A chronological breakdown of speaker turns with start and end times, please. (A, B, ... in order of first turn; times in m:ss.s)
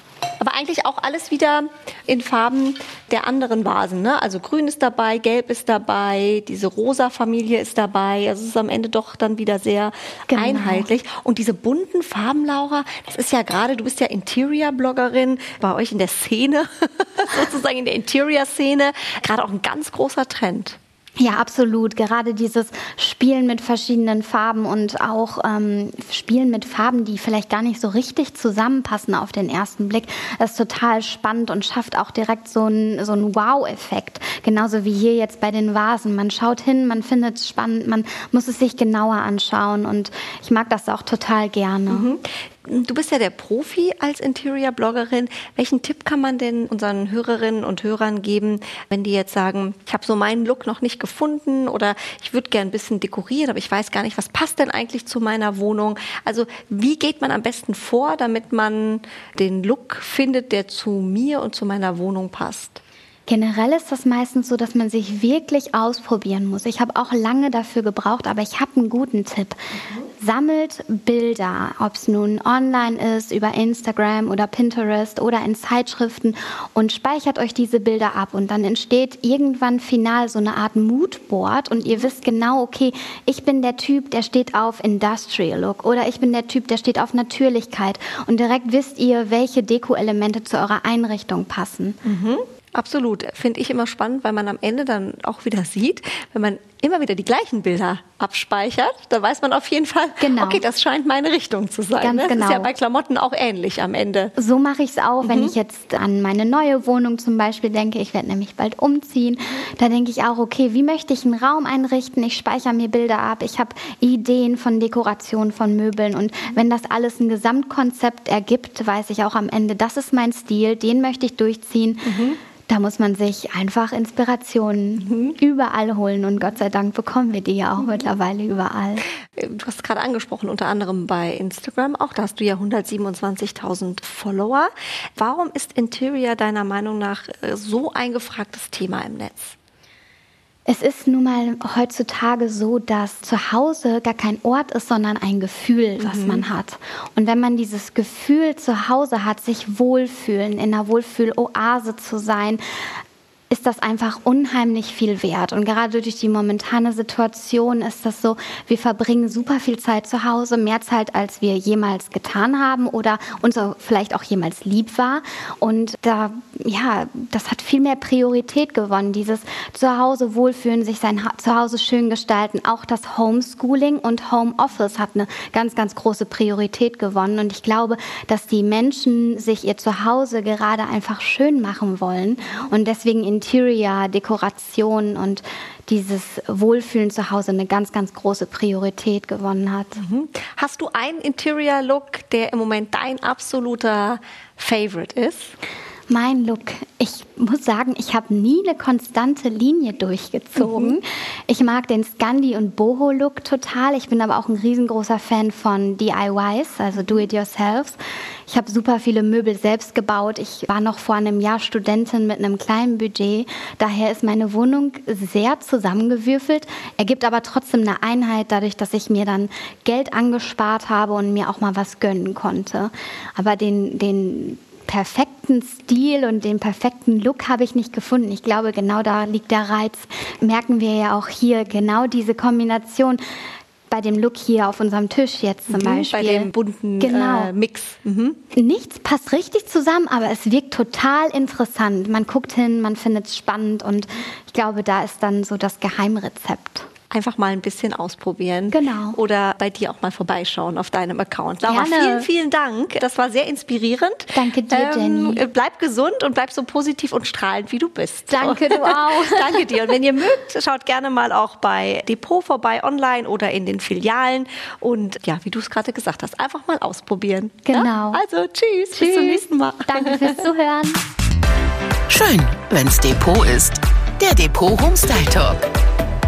0:00.4-0:20.8 A
0:10.3-0:10.9 B
0:21.2-0:42.1 B
0:41.9-1:02.8 A
1:03.3-1:32.0 B
1:32.0-1:44.3 A
1:40.2-1:40.6 B
1:42.0-1:42.7 B
1:44.4-2:02.1 B
1:45.2-1:45.5 A
2:02.0-2:02.4 A
2:02.7-2:09.0 B
2:05.0-2:05.3 A
2:09.4-2:19.6 A
2:20.6-2:32.6 B
2:26.0-2:26.4 A
2:33.5-3:10.0 B
3:10.0-3:15.5 A
3:16.1-3:53.2 B
3:20.6-3:20.9 A
3:53.9-3:57.5 B
3:55.7-3:58.4 A
3:58.5-4:06.9 B
4:07.1-4:30.4 A
4:08.7-4:09.2 B
4:11.6-4:12.3 B
4:14.3-4:15.4 B
4:18.3-4:19.9 B
4:27.6-4:28.2 B
4:28.9-4:31.0 B
4:32.1-4:35.6 C